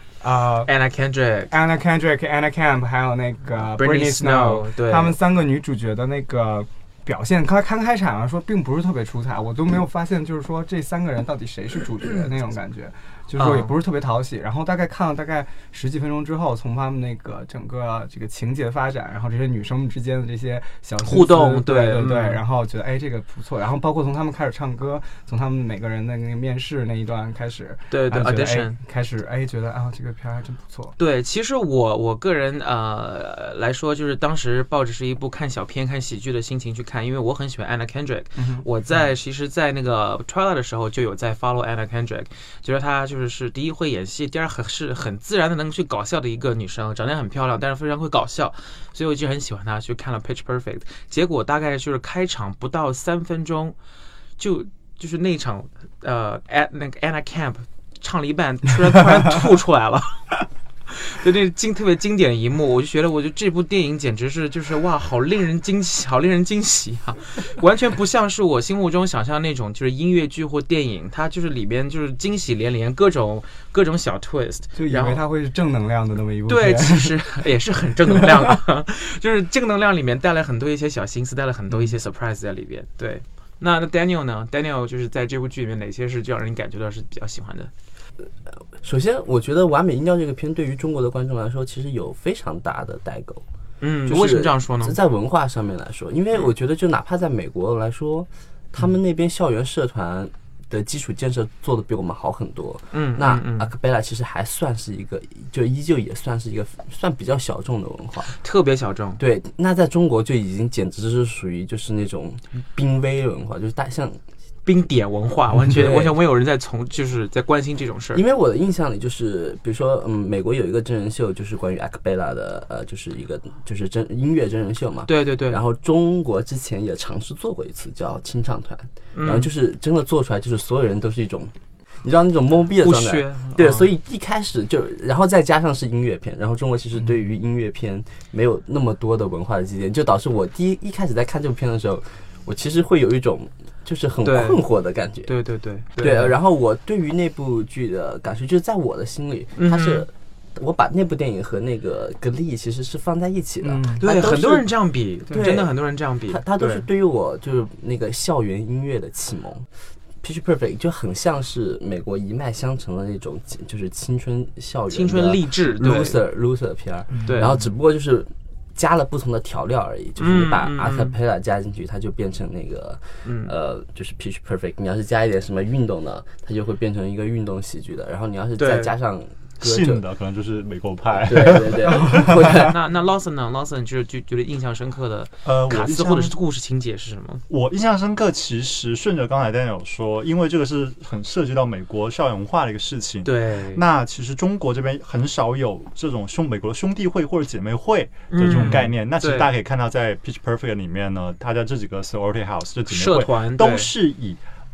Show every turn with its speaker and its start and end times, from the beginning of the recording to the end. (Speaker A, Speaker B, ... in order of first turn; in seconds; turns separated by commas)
Speaker A: 0.2-0.7, Speaker B: 0.6-1.5, Speaker A: 1.5-30.9, Speaker B: 3.8-5.2, Speaker B: 13.3-13.7, Speaker B: 21.0-22.4, Speaker B: 27.9-28.8, Speaker B: 31.0-53.7, Speaker A: 38.4-38.7, Speaker B: 54.4-60.3, Speaker B: 60.9-75.2, Speaker A: 74.7-77.2, Speaker B: 76.5-87.7, Speaker C: 88.7-93.4, Speaker B: 93.8-95.0, Speaker C: 94.0-108.4, Speaker B: 102.9-103.7, Speaker B: 108.3-109.2, Speaker C: 109.2-114.2, Speaker B: 114.6-118.2, Speaker C: 115.7-116.2, Speaker C: 118.1-145.3, Speaker B: 125.0-125.6, Speaker B: 129.1-129.5, Speaker B: 132.8-133.9, Speaker B: 144.2-144.6, Speaker B: 145.2-146.3, Speaker C: 146.0-154.7, Speaker B: 149.6-150.1, Speaker A: 153.7-154.0, Speaker B: 154.0-156.8, Speaker C: 155.3-155.7, Speaker C: 156.3-159.7, Speaker C: 160.2-180.0, Speaker B: 164.9-166.2, Speaker B: 167.2-167.6, Speaker B: 170.2-171.1, Speaker B: 173.2-173.5, Speaker B: 178.6-178.9, Speaker D: 179.6-182.2, Speaker C: 181.1-182.8, Speaker B: 182.5-187.4, Speaker D: 185.4-186.3, Speaker D: 187.5-204.4, Speaker B: 193.2-193.8, Speaker B: 198.3-199.5, Speaker B: 202.9-203.9